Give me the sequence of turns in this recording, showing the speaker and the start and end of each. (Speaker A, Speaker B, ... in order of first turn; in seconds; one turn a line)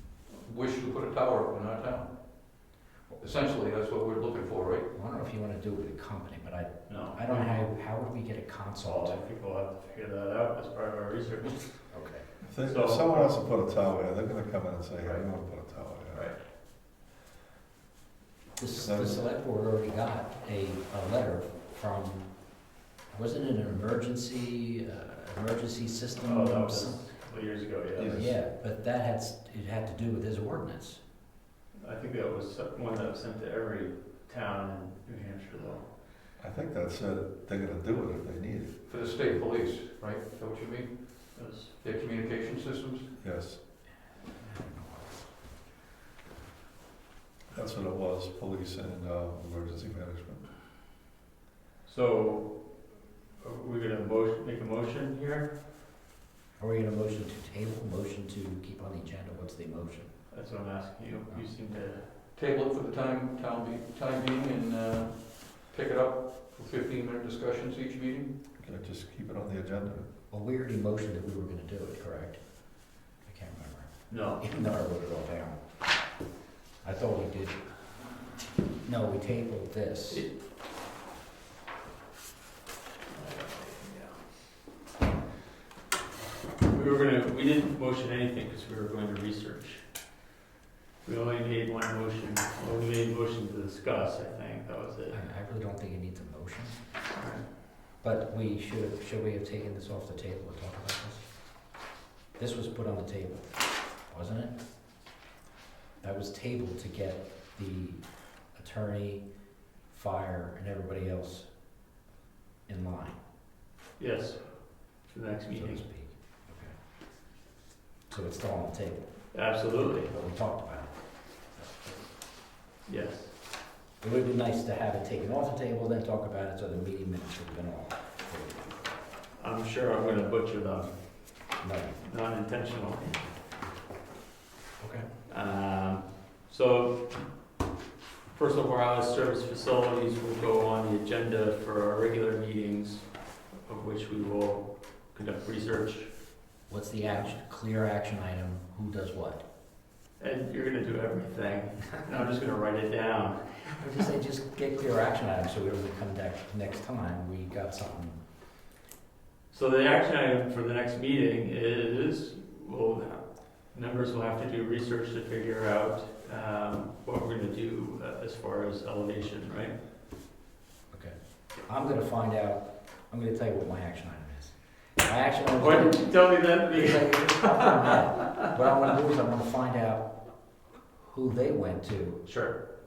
Speaker A: 0.3-4.9
Speaker B: 4.9-9.2
Speaker C: 6.9-7.7
Speaker C: 8.8-12.1
Speaker B: 11.9-12.3
Speaker D: 12.4-16.3
Speaker C: 12.6-13.4
Speaker C: 15.0-15.3
Speaker C: 16.1-16.4
Speaker B: 18.6-27.0
Speaker D: 18.8-19.2
Speaker C: 26.2-28.3
Speaker D: 28.0-28.3
Speaker B: 28.1-31.0
Speaker C: 31.8-35.9
Speaker D: 36.4-38.7
Speaker A: 38.9-43.1
Speaker C: 41.3-41.7
Speaker D: 43.2-43.6
Speaker B: 44.4-45.3
Speaker D: 47.5-50.4
Speaker C: 51.9-55.5
Speaker B: 56.6-60.2
Speaker C: 60.3-62.1
Speaker A: 62.4-68.3
Speaker D: 68.6-70.1
Speaker B: 70.3-76.1
Speaker C: 74.1-74.4
Speaker B: 76.8-78.1
Speaker B: 78.8-80.3
Speaker C: 80.1-80.4
Speaker C: 83.1-84.3
Speaker C: 86.6-90.1
Speaker C: 91.0-95.2
Speaker B: 95.1-96.8
Speaker C: 97.2-97.5
Speaker B: 98.0-101.8
Speaker B: 102.4-104.6
Speaker B: 106.0-109.3
Speaker B: 109.8-111.5
Speaker B: 112.7-113.2
Speaker C: 114.0-115.8
Speaker B: 115.5-116.7
Speaker B: 118.1-119.0
Speaker C: 119.3-120.1
Speaker B: 120.0-122.0
Speaker C: 122.8-123.3
Speaker B: 124.0-128.7
Speaker C: 129.3-133.3
Speaker B: 131.6-132.0
Speaker B: 134.8-135.1
Speaker C: 135.3-137.5
Speaker C: 138.3-146.1
Speaker B: 146.7-149.4
Speaker C: 150.2-153.8
Speaker B: 153.8-158.2
Speaker C: 159.5-169.8
Speaker B: 170.9-180.3
Speaker C: 175.6-177.9
Speaker B: 181.0-182.2
Speaker C: 182.2-182.6